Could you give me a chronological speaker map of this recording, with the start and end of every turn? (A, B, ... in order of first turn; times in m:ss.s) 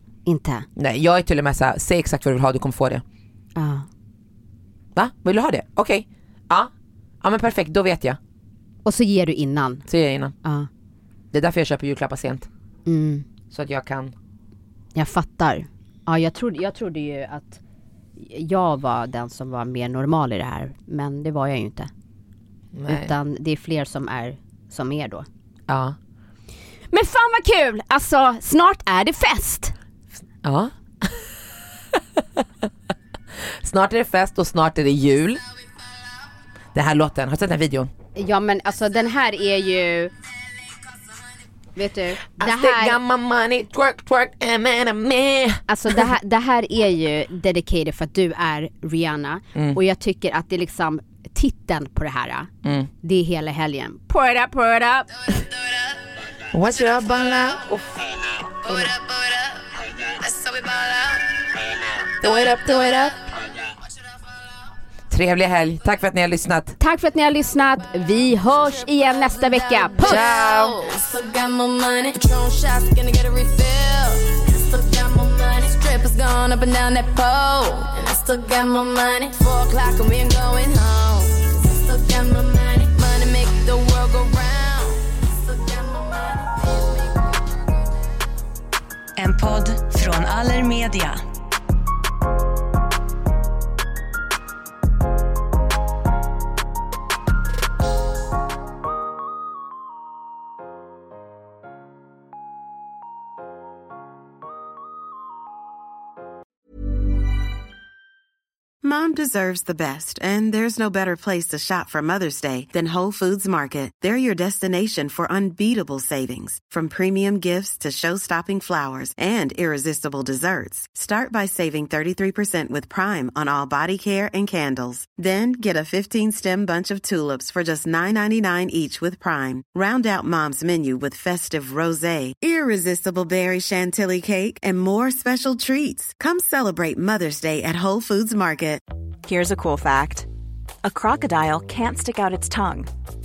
0:00.3-0:00.7 A
0:00.8-0:03.0 B
0:03.6-0:03.8 A
0:05.0-0:06.7 B
0:07.2-0:08.2 B
0:08.8-0:09.8 A
0:09.9-0:10.3 B
0:11.3-0:12.5 B
0:12.9-0:13.3 A
0:13.5-0:14.1 B
0:15.0-0:17.6 A
0:18.2-0:21.9 A
0:22.7-0:23.1 B
0:22.9-0:25.3 A
0:25.7-0:26.0 B
0:26.9-0:29.7 A
0:30.4-0:31.3 B
0:31.9-0:32.4 B
0:33.6-0:35.4 B
0:36.7-0:37.9 B
0:38.2-0:40.1 A
0:41.8-0:43.0 A
0:42.3-0:45.6 B
0:45.7-0:52.5 A
0:52.6-0:52.9 B
0:53.0-0:55.1 A
0:56.5-0:58.9 B
0:58.9-1:01.5 C
1:02.2-1:03.3 B
1:05.1-1:06.8 B
1:06.8-1:10.2 A
1:09.8-1:27.9 C
1:10.0-1:10.8 B
1:29.2-1:31.2 D
1:48.8-2:18.8 E
2:19.2-2:20.3 F
2:20.8-2:22.9 F